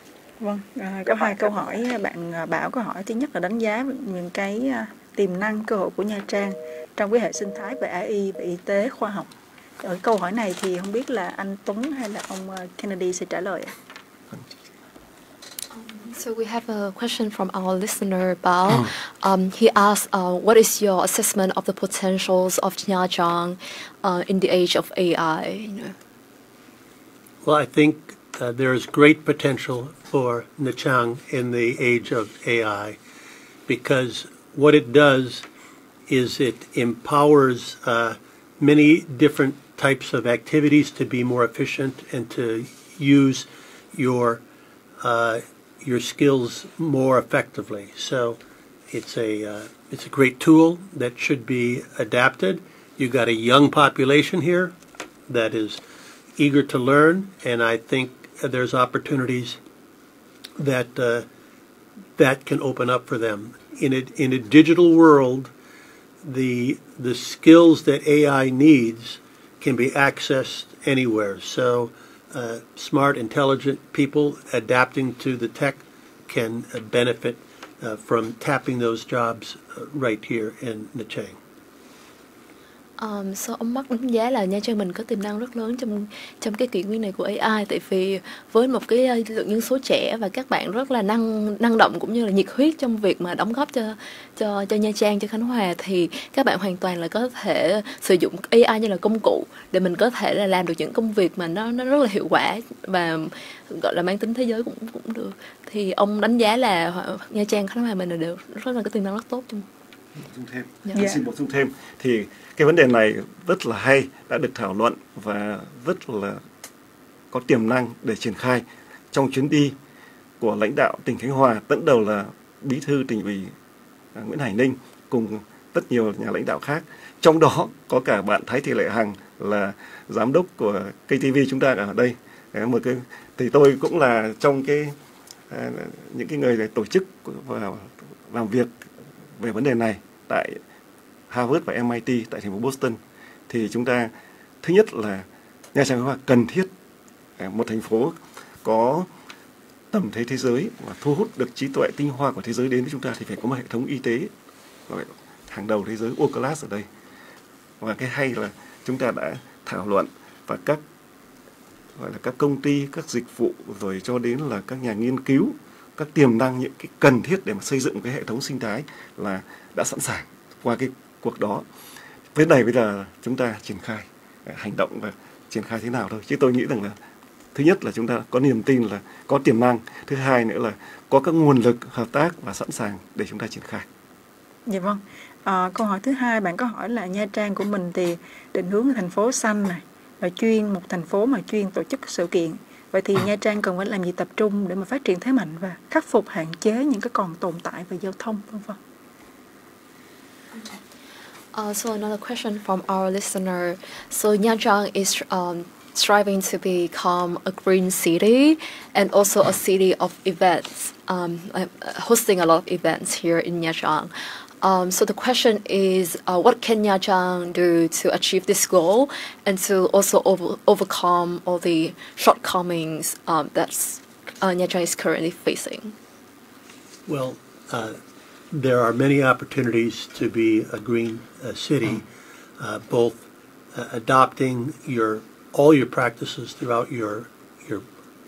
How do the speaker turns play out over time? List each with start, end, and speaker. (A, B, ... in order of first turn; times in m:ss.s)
0:00.4-0:09.3 A
0:09.8-0:13.7 A
0:15.7-0:26.0 B
0:27.4-0:33.0 C
0:33.7-0:35.4 C
0:36.1-0:44.4 C
0:45.0-0:48.4 C
0:48.9-0:54.7 C
0:55.3-0:55.8 C
0:56.4-0:59.6 C
1:00.6-1:01.3 C
1:02.2-1:05.5 C
1:06.2-1:21.4 C
1:23.0-1:49.7 B
1:50.2-1:56.4 D
1:50.9-1:51.2 A
1:57.3-1:59.8 D
2:00.4-2:03.5 D
2:04.2-2:15.0 D
2:15.5-2:18.8 D
2:19.4-2:20.6 D
2:21.3-2:24.1 D
2:24.6-2:26.7 D
2:27.4-2:29.1 D
2:29.9-2:34.3 D
2:34.9-2:36.9 D
2:37.8-2:40.8 D
2:42.0-2:51.6 D
2:52.4-2:57.0 D
2:57.5-3:03.9 D
3:04.7-3:18.8 A
3:21.5-3:34.1 B
3:34.6-3:45.9 B
3:47.1-3:48.0 C
3:48.5-3:52.1 C
3:52.6-3:57.8 C